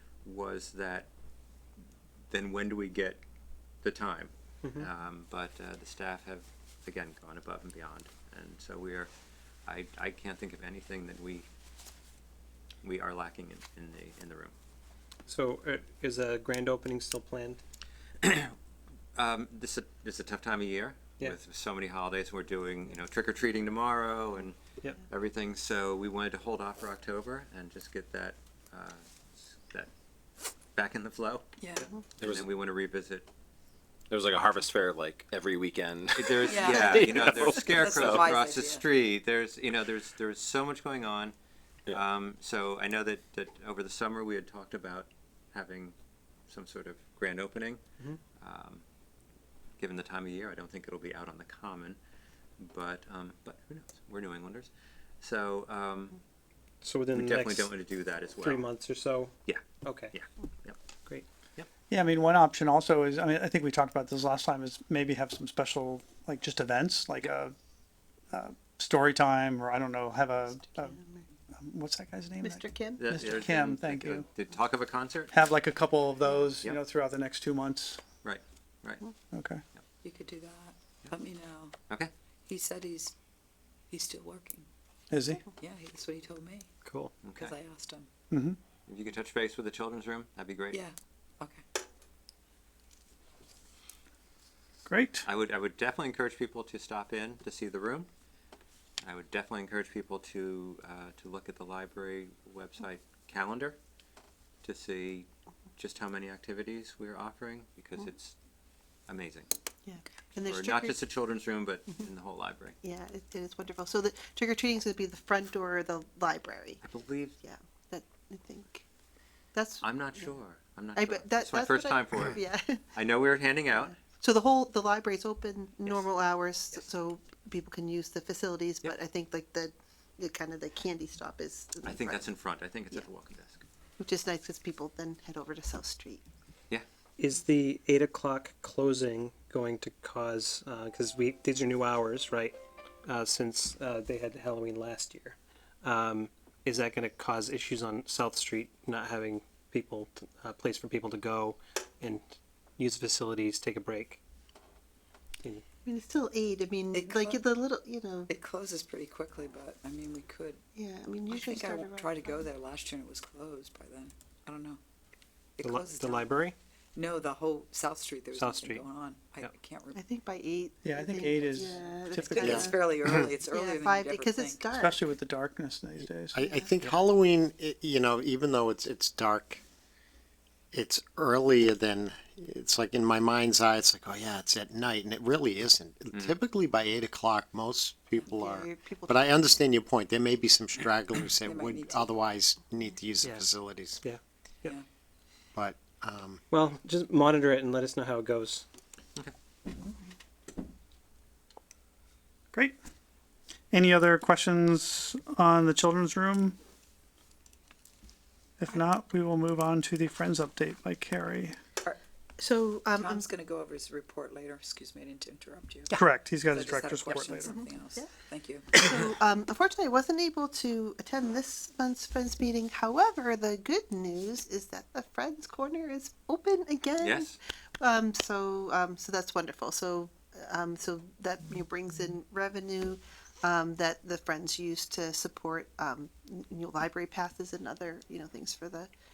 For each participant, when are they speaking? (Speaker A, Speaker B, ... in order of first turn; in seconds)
Speaker A: 0.2-1.1, 2.3-3.2, 3.8-9.1, 9.7-11.5, 12.8-14.6, 18.2-18.5, 19.2-24.6, 25.1-29.9, 30.8-33.3, 36.2-41.3, 41.9-45.9, 46.5-47.8, 48.4-48.8, 49.8-52.0, 52.6-56.2, 57.1-58.6, 59.5-60.8, 73.0-75.3, 78.2-79.0, 87.2-87.5, 88.9-90.8, 95.2-98.1, 99.0-103.8, 104.6-108.3, 109.1-109.5, 110.4-112.8, 116.8-117.4, 119.8-122.4, 122.9-123.9, 131.8-133.6, 227.0-227.4
Speaker B: 4.6-4.9, 15.3-17.6, 56.8-57.8, 58.4-60.2, 86.8-87.2, 137.2-154.2, 165.6-166.6, 168.3-168.9, 193.2-193.5, 194.0-194.8, 196.5-198.7
Speaker C: 31.6-31.9, 36.4-38.9, 80.0-81.8, 82.5-83.1, 83.9-84.7, 85.5-86.7, 87.3-88.1, 90.7-91.6, 156.9-157.5, 158.3-160.6, 161.3-164.8, 165.6-166.3, 166.9-170.0, 172.3-174.7, 188.2-188.9, 191.4-192.2, 212.9-218.9
Speaker D: 32.2-32.5, 34.1-38.2
Speaker E: 36.6-37.6, 70.8-71.3, 72.4-73.0, 109.8-111.0, 112.8-116.8, 117.4-118.8, 119.5-120.4, 121.0-122.9, 123.7-132.3, 134.0-136.2, 155.8-158.3, 160.8-162.5, 169.9-172.8, 173.5-175.1, 176.4-176.7, 188.7-189.3, 211.8-213.3, 217.4-218.1, 218.7-238.9
Speaker F: 61.9-67.5, 68.3-71.0, 71.6-74.3, 75.3-78.0, 79.3-79.6, 85.1-85.4, 88.3-88.6, 94.9-95.3, 170.8-172.8, 174.7-176.5, 203.7-206.6, 208.6-211.6, 215.9-217.6
Speaker G: 172.4-173.3, 176.3-179.6, 180.7-194.0, 195.5-196.4